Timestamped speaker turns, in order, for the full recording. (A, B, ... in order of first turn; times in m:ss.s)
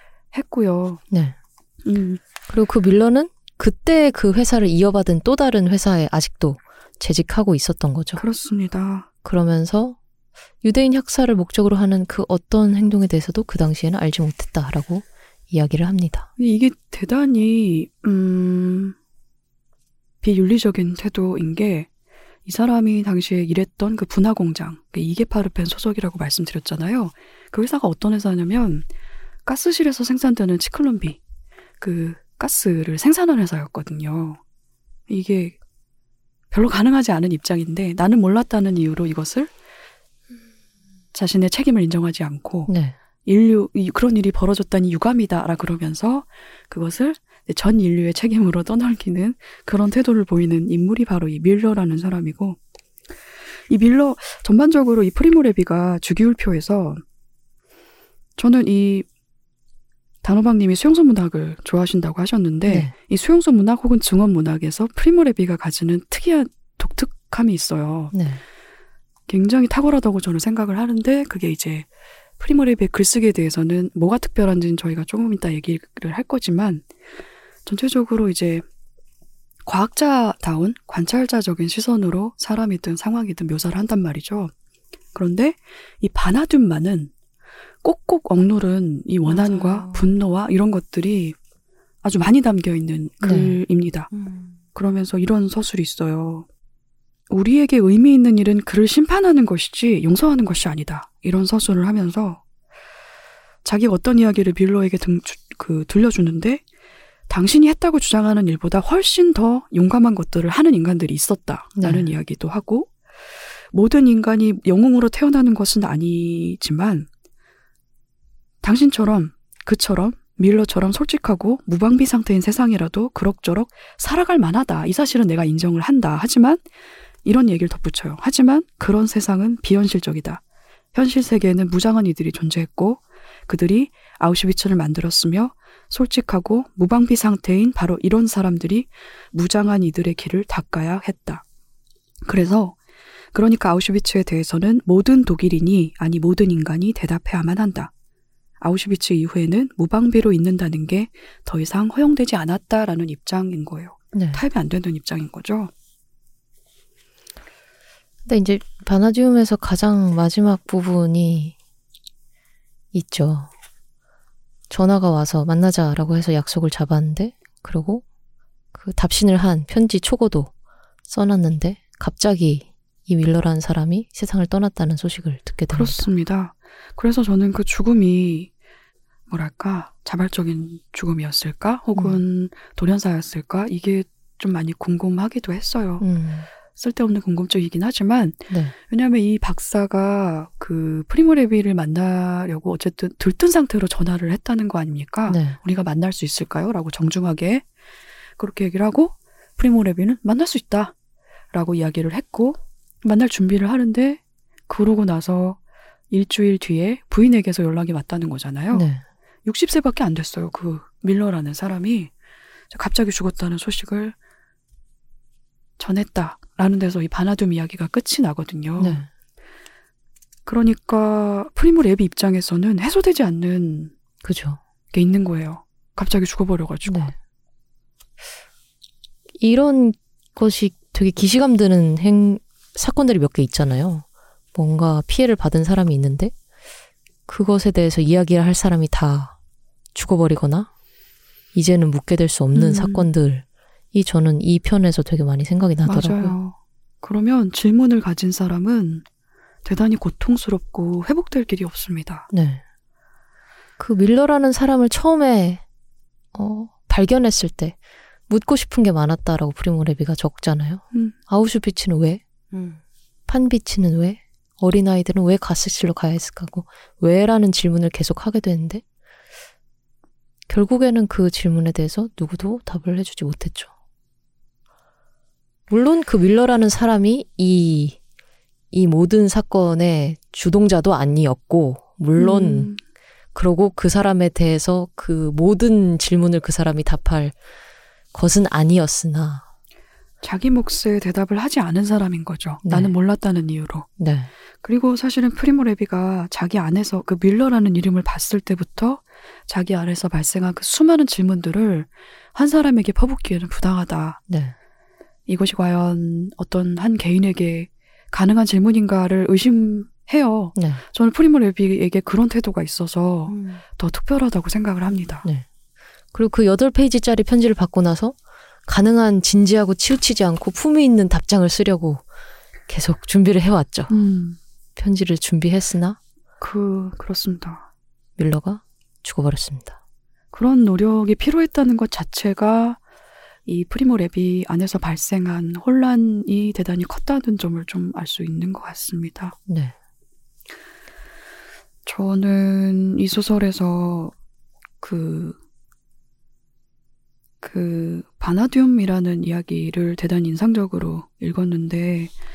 0:00.3-0:01.0 A
0:01.1-0:01.4 B
0:01.8-0:02.2 A
0:02.5-0:08.2 B
0:08.2-0:09.1 A
0:09.2-0:10.0 B
0:10.6-0:16.3 B
0:16.4-0:19.0 A
0:20.2-0:21.9 A
0:22.5-0:28.9 A
0:29.5-0:31.2 A
0:31.8-0:34.4 A
0:35.1-0:35.6 A
0:36.5-0:39.5 A
0:41.1-0:42.7 A
0:42.7-0:43.0 B
0:43.2-0:52.6 A
0:53.7-0:57.0 A
0:58.4-0:59.1 A
1:00.2-1:08.1 A
1:02.7-1:02.9 B
1:08.1-1:08.4 B
1:09.3-1:11.9 A
1:12.4-1:16.9 A
1:17.7-1:18.6 A
1:19.7-1:24.5 A
1:25.2-1:27.1 A
1:27.8-1:31.4 A
1:29.3-1:30.1 C
1:32.0-1:34.1 A
1:33.2-1:33.6 B
1:34.1-1:34.6 C
1:34.8-1:36.5 A
1:37.3-1:42.4 A
1:43.6-1:46.6 A
1:47.3-1:52.9 A
1:51.8-1:52.1 B
1:53.7-1:57.1 A
1:58.6-2:06.6 A
2:07.2-2:10.4 A
2:10.9-2:21.4 A
2:22.2-2:22.8 A
2:23.3-2:27.9 A
2:28.6-2:35.7 A
2:34.1-2:34.4 B
2:38.3-2:41.6 B
2:42.9-2:43.5 B
2:44.7-2:48.0 B
2:48.7-2:50.5 B
2:51.1-2:56.1 B
2:55.7-2:58.5 A
2:59.3-3:06.1 A
3:06.0-3:06.5 B
3:06.8-3:17.6 A
3:08.5-3:08.7 B
3:15.3-3:15.6 B
3:18.4-3:20.9 A
3:21.5-3:25.6 A
3:26.1-3:28.9 A
3:28.7-3:29.0 B
3:29.4-3:32.1 A
3:32.7-3:34.2 A
3:35.8-3:39.0 A
3:38.8-3:39.1 B
3:40.5-3:43.9 A
3:44.2-3:44.6 B
3:44.9-3:47.1 A
3:46.9-3:47.1 B
3:49.4-3:56.3 B
3:57.3-3:59.4 B
3:59.9-4:00.7 B
4:01.5-4:06.4 B
4:02.5-4:03.1 A
4:05.8-4:09.0 A
4:09.6-4:12.3 A
4:12.3-4:12.6 B
4:13.8-4:15.6 B
4:16.3-4:17.8 B
4:18.3-4:22.2 B
4:22.5-4:22.8 C
4:23.3-4:28.8 B
4:30.5-4:33.7 B
4:35.7-4:38.0 B
4:38.7-4:42.7 B
4:42.2-4:42.8 A
4:43.4-4:47.4 B
4:48.1-4:49.4 B
4:50.2-4:53.9 A
4:52.6-4:52.9 B
4:54.0-4:54.3 B
4:54.6-5:04.2 A
5:04.3-5:04.5 B
5:05.3-5:15.2 A
5:10.6-5:10.8 B
5:13.3-5:13.6 C
5:16.1-5:18.2 B
5:18.7-5:22.0 B
5:22.7-5:23.9 B
5:23.9-5:24.4 A
5:24.8-5:26.0 B
5:26.4-5:27.7 A
5:28.2-5:29.8 B
5:30.3-5:32.8 A
5:33.5-5:39.4 A
5:39.5-5:39.7 B
5:41.9-5:44.1 A
5:44.8-5:45.4 A
5:47.4-5:52.1 A